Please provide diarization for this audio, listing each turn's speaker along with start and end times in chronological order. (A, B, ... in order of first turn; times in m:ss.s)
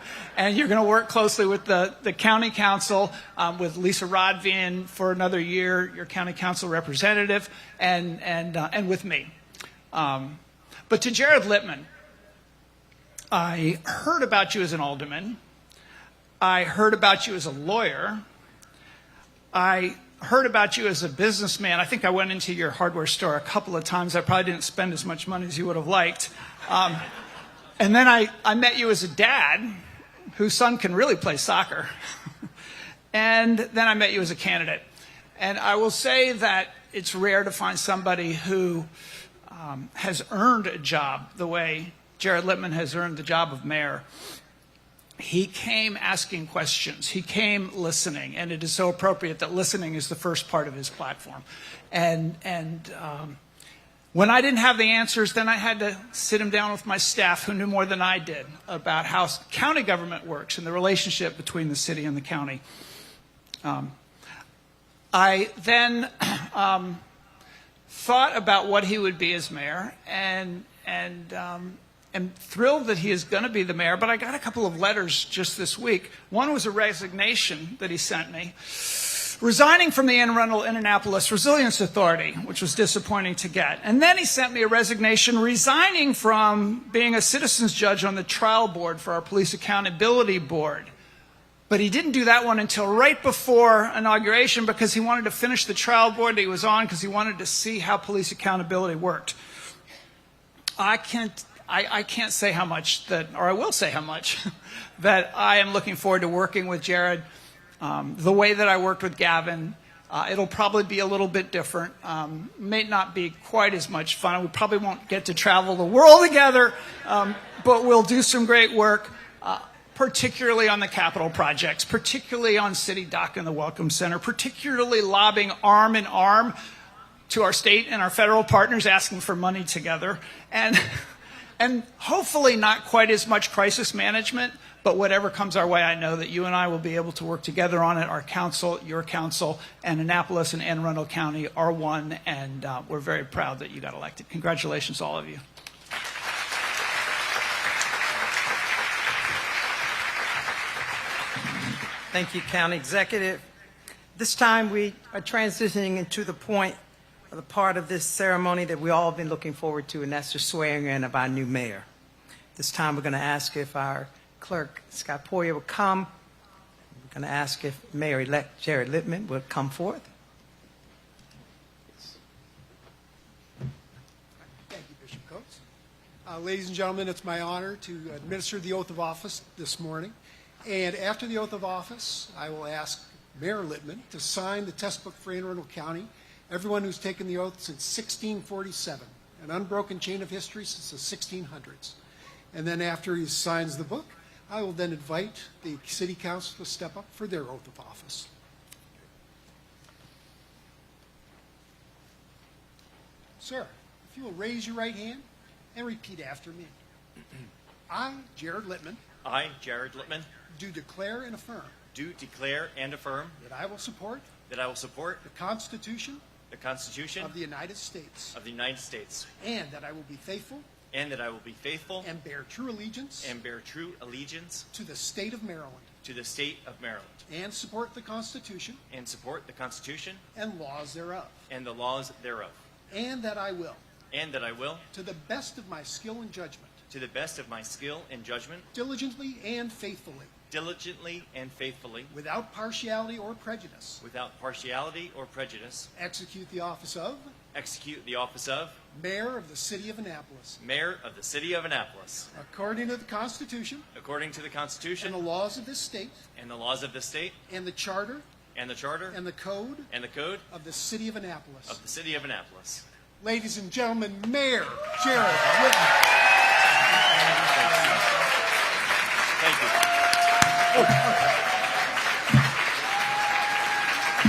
0:00.4-0:09.3 A
0:09.9-0:10.4 A
0:10.9-0:11.9 A
0:13.3-0:15.4 A
0:16.4-0:18.2 A
0:19.5-0:27.0 A
0:27.8-0:29.7 A
0:30.3-0:31.9 A
0:33.1-0:34.8 A
0:35.4-0:38.9 A
0:39.5-0:44.0 A
0:45.2-0:53.4 A
0:54.1-1:02.6 A
1:03.6-1:03.9 A
1:05.1-1:07.0 A
1:07.9-1:30.9 A
1:31.7-1:39.3 A
1:40.8-1:44.4 A
1:45.0-1:47.2 A
1:47.8-2:06.5 A
2:07.3-2:11.0 A
2:11.6-2:25.4 A
2:32.1-2:33.4 B
2:34.1-2:36.8 B
2:37.3-2:41.9 B
2:42.5-2:46.1 B
2:47.0-2:50.1 B
2:54.7-2:55.6 C
2:56.2-3:12.0 C
3:12.5-3:18.3 C
3:23.4-3:26.7 C
3:27.9-3:29.0 C
3:29.2-3:30.3 D
3:30.5-3:31.7 C
3:31.9-3:33.4 D
3:33.4-3:34.3 C
3:34.5-3:35.2 D
3:35.2-3:36.2 C
3:36.5-3:37.3 D
3:37.2-3:38.4 C
3:38.3-3:39.3 D
3:39.4-3:40.7 C
3:40.9-3:42.1 D
3:42.0-3:43.3 C
3:43.2-3:44.6 D
3:44.7-3:45.9 C
3:46.0-3:47.2 D
3:47.3-3:48.8 C
3:48.9-3:50.2 D
3:50.3-3:51.4 C
3:51.5-3:52.6 D
3:52.9-3:53.8 C
3:54.1-3:54.8 D
3:54.9-3:56.8 C
3:56.9-3:58.7 D
3:58.7-4:00.3 C
4:00.5-4:02.1 D
4:02.1-4:04.0 C
4:04.0-4:05.9 D
4:05.9-4:07.3 C
4:07.5-4:08.8 D
4:08.9-4:10.6 C
4:10.6-4:12.3 D
4:12.3-4:13.9 C
4:13.9-4:15.2 D
4:15.0-4:16.2 C
4:16.4-4:17.4 D
4:17.5-4:18.2 C
4:18.5-4:19.2 D
4:19.1-4:19.9 C
4:19.9-4:20.4 D
4:20.5-4:21.8 C
4:21.7-4:22.8 D
4:23.2-4:26.0 C
4:26.8-4:28.1 C
4:27.5-4:28.0 D
4:29.4-4:29.8 D
4:30.7-4:31.3 C